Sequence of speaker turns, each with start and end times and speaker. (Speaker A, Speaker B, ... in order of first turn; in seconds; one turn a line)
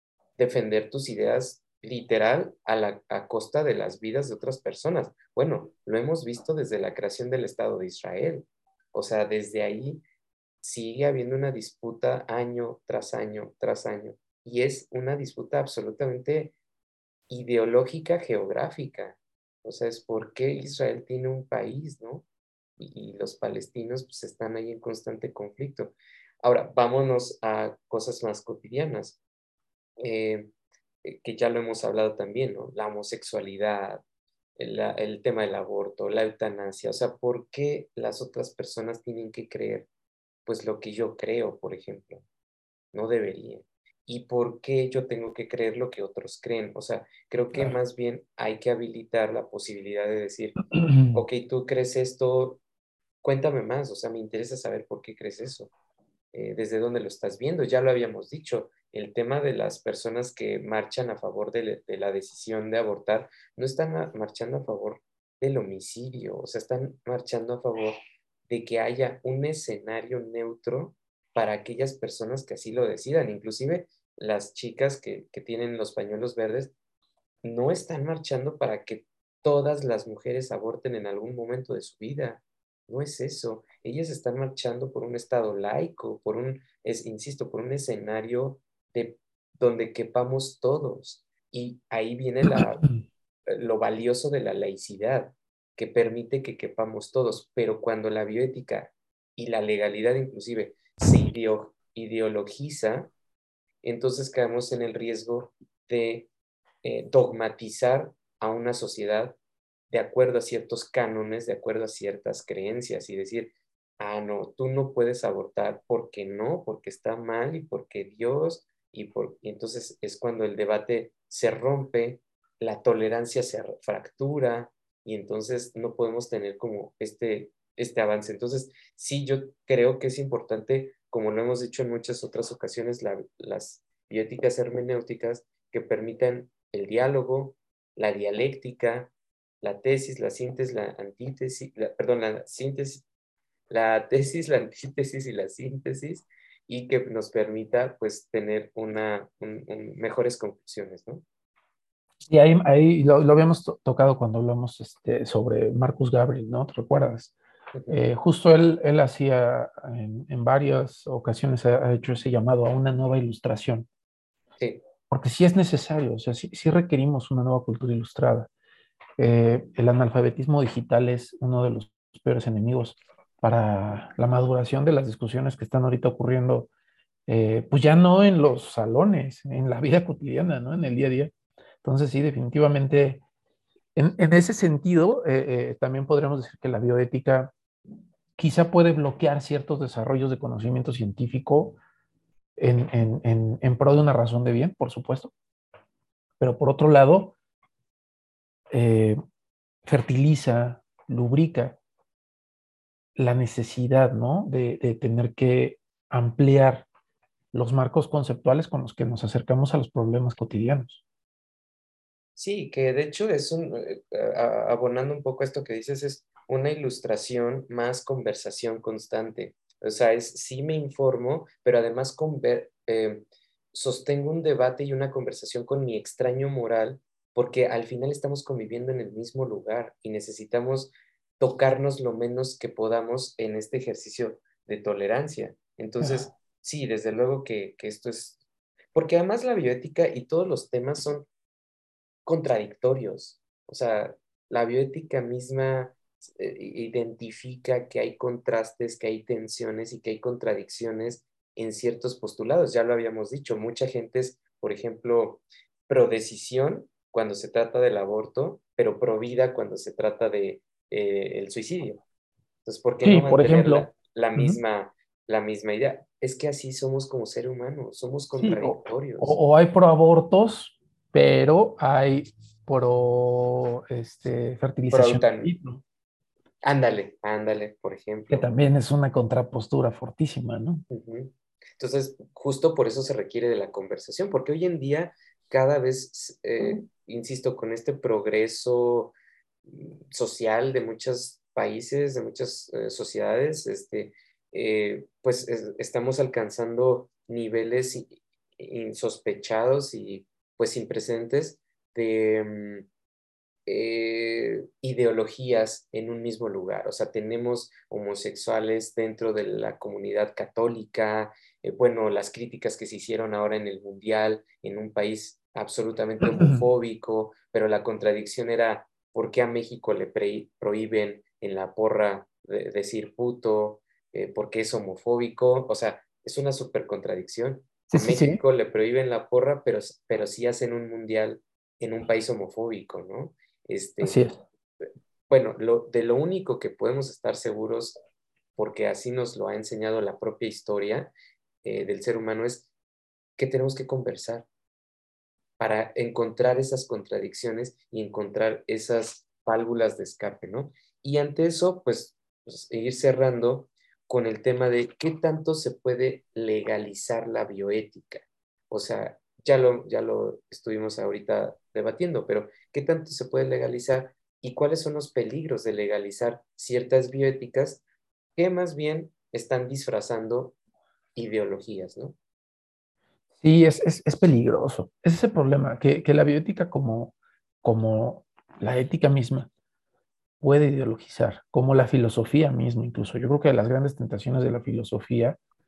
Speaker A: 0.4-10.0
Speaker A: 10.6-16.6
Speaker A: 17.3-22.3
Speaker A: 22.8-29.2
Speaker A: 30.0-30.5
Speaker A: 31.0-34.0
Speaker A: 34.6-39.9
Speaker A: 40.5-42.2
Speaker A: 42.9-52.6
Speaker B: 50.8-51.2
Speaker A: 53.2-55.7
Speaker A: 56.3-76.7
Speaker A: 77.4-92.9
Speaker B: 92.5-92.9
Speaker A: 93.5-103.1
Speaker A: 103.8-106.3
Speaker A: 106.8-109.4
Speaker A: 109.9-143.1
Speaker A: 143.7-151.2
Speaker B: 152.3-157.3
Speaker B: 157.9-163.9
Speaker B: 165.1-168.5
Speaker B: 169.2-176.7
Speaker B: 177.3-181.3
Speaker B: 181.8-183.2
Speaker B: 184.0-187.5
Speaker B: 188.4-191.8
Speaker B: 192.6-195.3
Speaker B: 196.4-197.3
Speaker B: 198.7-199.2
Speaker B: 199.9-201.8
Speaker B: 203.2-206.9
Speaker B: 207.5-211.0
Speaker A: 212.4-238.4
Speaker B: 236.0-236.3
Speaker A: 238.9-241.3
Speaker A: 242.3-262.0
Speaker A: 262.6-269.4
Speaker B: 263.0-264.6
Speaker B: 268.4-275.8
Speaker A: 274.9-275.5
Speaker A: 276.6-278.5
Speaker B: 278.3-280.8
Speaker A: 280.9-289.1
Speaker A: 289.7-302.9
Speaker A: 303.7-334.2
Speaker B: 316.2-316.6
Speaker B: 327.9-328.4
Speaker B: 334.0-334.4
Speaker A: 335.3-338.0
Speaker A: 338.6-341.1
Speaker A: 341.6-342.7
Speaker A: 343.4-344.5
Speaker A: 345.6-367.8
Speaker A: 368.4-370.6
Speaker A: 371.2-372.2
Speaker B: 373.4-379.5
Speaker B: 380.4-385.4